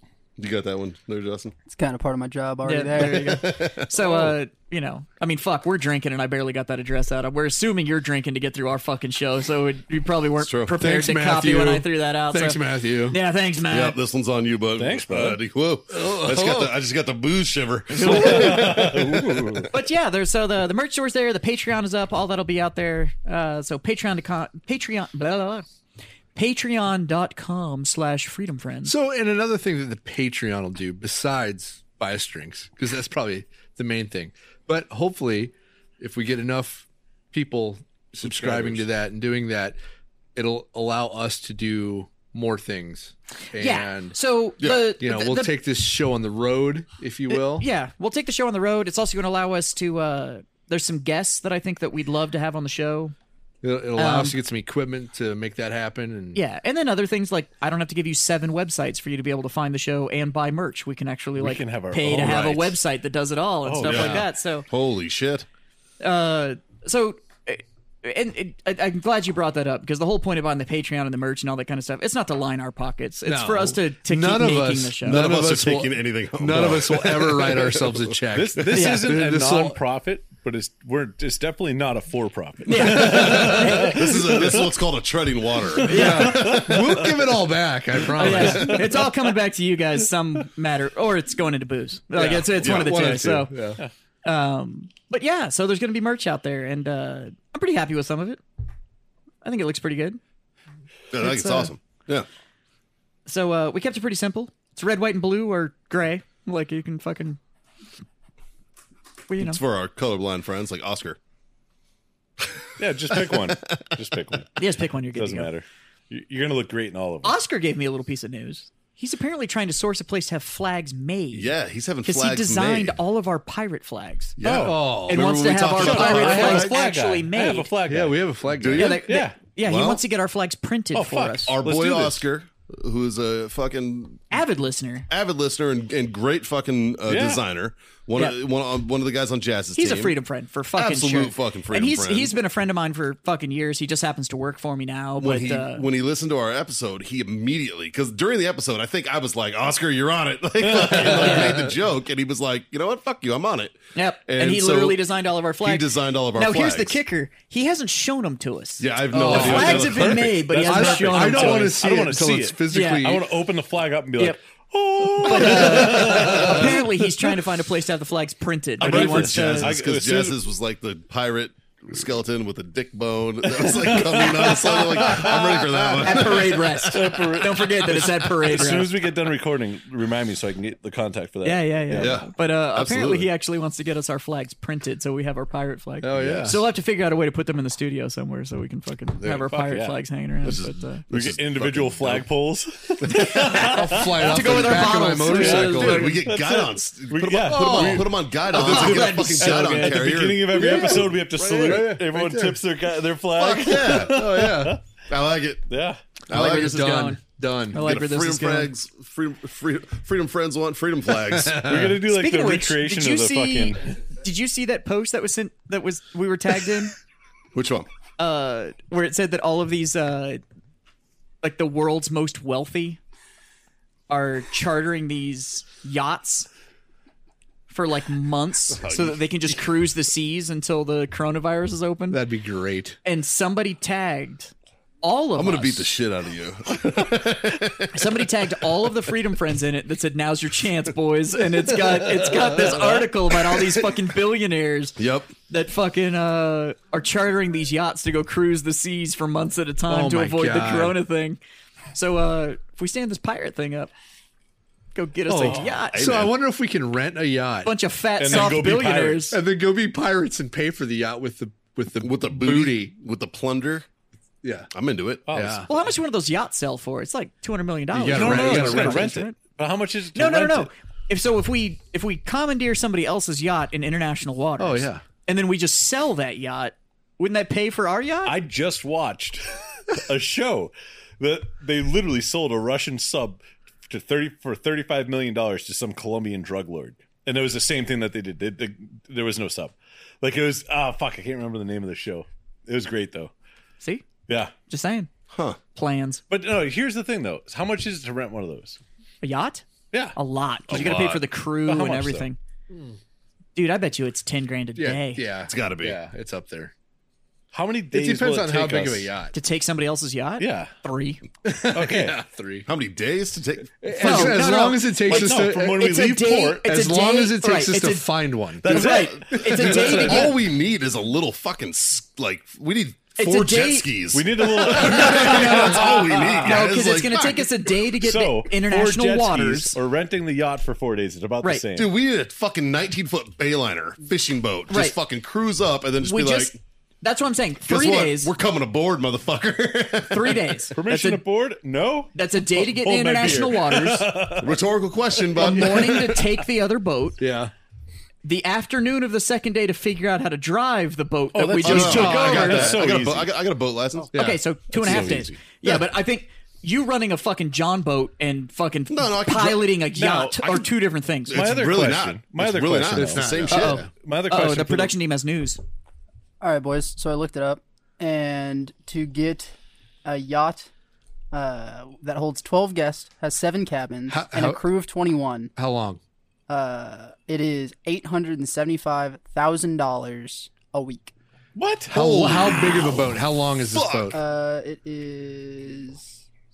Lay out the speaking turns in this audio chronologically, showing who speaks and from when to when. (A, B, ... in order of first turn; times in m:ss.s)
0:00.4-0:01.6 A
0:01.7-0:03.6 B
0:02.6-0:14.0 C
0:03.2-0:04.3 A
0:10.4-0:10.8 A
0:10.7-0:13.2 D
0:13.7-0:19.7 A
0:14.8-0:15.4 E
0:15.9-0:16.7 D
0:17.9-0:18.6 C
0:18.0-0:19.7 E
0:19.7-0:25.6 C
0:26.3-0:28.9 C
0:28.8-0:39.8 D
0:38.2-0:38.8 A
0:40.3-0:47.6 D
0:43.6-0:45.5 C
0:44.6-0:44.8 A
0:47.3-0:53.1 C
0:53.6-0:56.4 D
0:54.0-0:54.4 C
0:56.3-1:04.7 C
1:01.4-1:02.8 E
1:03.6-1:04.2 E
1:03.8-1:05.4 A
1:03.9-1:04.2 D
1:06.0-1:15.2 C
1:13.2-1:19.8 D
1:15.0-1:18.1 A
1:18.3-1:24.7 E
1:18.7-1:19.2 C
1:22.7-1:24.2 C
1:22.9-1:27.1 A
1:23.0-1:23.6 D
1:25.8-1:28.9 D
1:25.9-1:26.4 C
1:26.0-1:27.1 E
1:28.2-1:33.5 C
1:28.2-1:28.8 E
1:32.1-1:33.8 D
1:32.6-1:32.9 A
1:34.2-1:38.4 C
1:39.4-1:40.2 C
1:41.1-1:42.3 A
1:41.2-1:41.7 C
1:43.2-1:47.4 C
1:49.3-1:49.6 C
1:49.4-1:51.2 A
1:52.8-1:54.6 E
1:53.1-1:53.6 A
1:54.6-1:55.5 C
1:55.1-1:57.4 E
1:57.2-2:01.5 C
2:01.3-2:03.0 A
2:02.0-2:04.4 C
2:04.4-2:06.8 A
2:04.4-2:04.8 E
2:04.5-2:05.3 D
2:05.1-2:07.7 C
2:05.7-2:08.3 E
2:07.8-2:09.0 D
2:08.6-2:09.0 A
2:08.8-2:11.6 C
2:09.0-2:09.4 E
2:09.6-2:10.0 A
2:10.9-2:12.2 E
2:11.4-2:14.4 A
2:14.3-2:15.1 C
2:15.1-2:20.2 A
2:17.1-2:17.4 E
2:19.8-2:25.8 C
2:20.7-2:22.3 A
2:25.2-2:35.0 A
2:30.6-2:31.5 E
2:31.0-2:31.6 C
2:33.9-2:41.8 C
2:35.6-2:37.0 A
2:38.8-2:40.4 A
2:39.1-2:43.2 D
2:40.5-2:46.9 E
2:42.7-2:43.1 C
2:45.2-2:49.7 C
2:46.0-2:46.4 D
2:48.8-2:58.0 A
2:48.8-2:50.4 E
2:53.6-2:56.1 E
2:56.0-2:58.9 C
2:56.8-3:02.2 E
3:01.4-3:11.0 C
3:01.9-3:03.3 A
3:06.0-3:06.6 D
3:06.1-3:06.6 A
3:09.5-3:10.0 E
3:10.4-3:12.3 A
3:11.1-3:14.2 E
3:13.1-3:16.1 C
3:13.6-3:16.2 D
3:14.6-3:21.1 A
3:15.2-3:24.8 E
3:17.5-3:18.2 D
3:18.5-3:20.0 C
3:20.5-3:22.6 D
3:21.6-3:21.9 A
3:23.4-3:25.6 A
3:23.8-3:24.8 D
3:25.7-3:26.0 E
3:26.3-3:27.1 A
3:26.3-3:27.2 C
3:26.3-3:27.9 D
3:27.7-3:28.7 C
3:27.7-3:31.9 A
3:31.5-3:34.0 E
3:32.0-3:36.9 C
3:37.5-3:37.9 A
3:38.2-3:40.4 C
3:41.4-3:43.0 C
3:44.1-3:46.5 C
3:47.7-3:52.2 C
3:48.8-3:49.2 A
3:52.1-3:53.0 D
3:53.0-3:55.8 C
3:55.4-3:58.2 A
3:57.9-4:11.4 C
4:05.0-4:05.3 A
4:09.9-4:11.0 D
4:11.9-4:13.9 C
4:14.9-4:16.1 C
4:15.3-4:17.7 D
4:15.9-4:16.3 A
4:17.6-4:19.4 C
4:18.2-4:19.3 E
4:18.3-4:18.6 D
4:19.3-4:22.9 D
4:22.0-4:23.8 A
4:24.4-4:24.7 D
4:24.7-4:25.2 A
4:25.3-4:25.9 E
4:25.3-4:25.7 D
4:25.7-4:29.4 C
4:27.9-4:29.2 D
4:28.1-4:30.7 E
4:30.1-4:38.4 C
4:34.6-4:35.0 D
4:38.2-4:53.3 E
4:53.8-4:54.0 C
4:54.7-4:55.1 C
4:55.3-4:55.6 A
4:55.7-4:56.2 C
4:56.3-4:58.8 E
4:59.2-5:02.4 C
5:00.7-5:01.2 A
5:01.6-5:02.3 E
5:02.7-5:03.0 D
5:03.6-5:05.2 C
5:04.8-5:06.7 D
5:05.5-5:06.0 A
5:07.5-5:09.1 E
5:07.9-5:09.3 D
5:09.3-5:11.2 C
5:10.4-5:10.7 E
5:11.4-5:12.7 D
5:11.7-5:12.2 E
5:12.6-5:14.4 A
5:13.8-5:16.0 D
5:14.0-5:18.1 C
5:15.0-5:16.6 E
5:16.6-5:20.3 D
5:18.6-5:20.4 C
5:18.7-5:27.5 A
5:18.9-5:20.3 E
5:23.2-5:23.9 C
5:24.1-5:26.6 E
5:24.6-5:29.8 C
5:28.0-5:31.9 E
5:31.8-5:36.6 A
5:34.7-5:35.0 C
5:36.0-5:38.3 C
5:37.7-5:41.0 A
5:40.1-5:41.1 C
5:40.7-5:44.6 E
5:42.1-5:44.1 C
5:44.4-5:46.4 A
5:45.4-5:47.2 C
5:47.2-5:47.5 D
5:48.2-5:52.8 C
5:51.3-5:53.3 E
5:51.6-5:54.1 A
5:51.9-5:52.5 D
5:54.1-5:55.2 D
5:54.1-6:01.4 C
5:54.7-5:55.8 A
5:54.8-5:55.1 E
5:58.9-5:59.8 A
6:00.0-6:00.7 E
6:01.3-6:03.9 A
6:01.3-6:04.9 E
6:02.9-6:03.9 D
6:03.5-6:05.6 C
6:06.4-6:09.5 B
6:10.0-6:10.7 B
6:11.3-6:15.5 B
6:14.1-6:14.6 D
6:15.6-6:16.0 D
6:16.5-6:21.1 B
6:21.6-6:21.9 E
6:21.9-6:24.2 D
6:21.9-6:23.1 A
6:23.7-6:24.2 A
6:24.1-6:26.2 B